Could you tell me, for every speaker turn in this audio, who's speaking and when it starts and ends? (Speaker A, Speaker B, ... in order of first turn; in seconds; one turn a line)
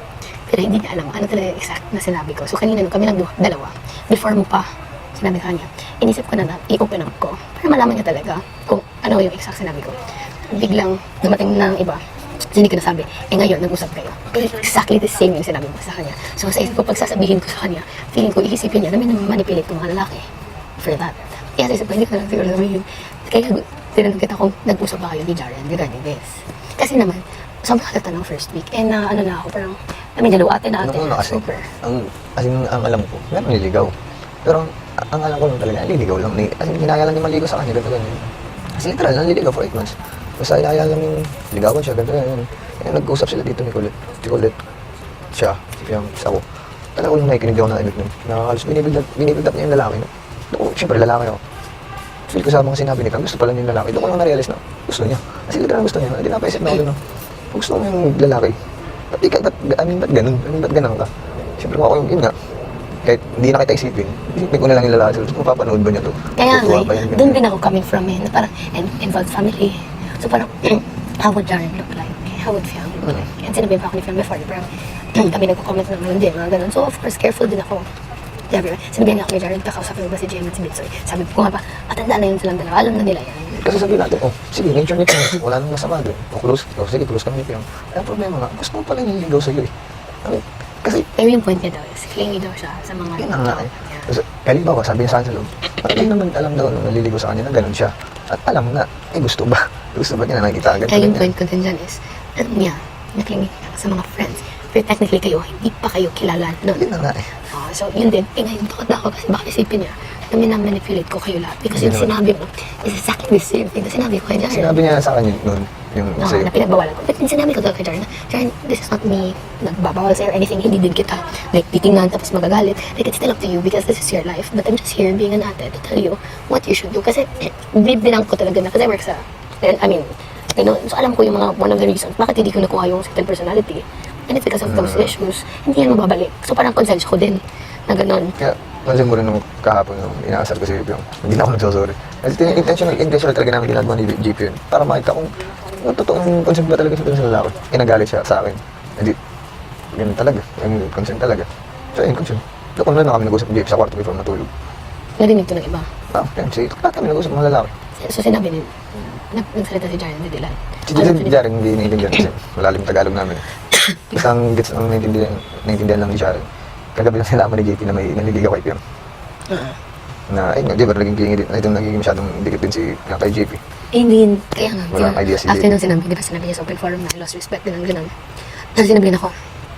Speaker A: 0.3-31.8
Speaker B: 30.8-44.6
Speaker B: 45.3-51.4
Speaker B: 52.3-67.4
Speaker A: 66.3-77.9
Speaker A: 78.5-83.8
Speaker B: 83.5-89.7
Speaker B: 90.2-91.1
Speaker A: 91.0-94.1
Speaker B: 93.2-101.3
Speaker A: 100.7-114.8
Speaker B: 106.8-107.4
Speaker B: 111.7-112.1
Speaker B: 114.5-116.5
Speaker A: 116.2-138.4
Speaker B: 134.7-135.1
Speaker B: 138.4-149.2
Speaker B: 149.9-154.5
Speaker A: 155.2-155.9
Speaker B: 156.1-157.7
Speaker A: 158.0-161.4
Speaker B: 160.9-163.5
Speaker A: 163.7-164.2
Speaker B: 164.1-168.8
Speaker A: 169.5-169.8
Speaker B: 170.3-173.6
Speaker A: 173.9-179.4
Speaker B: 174.9-175.7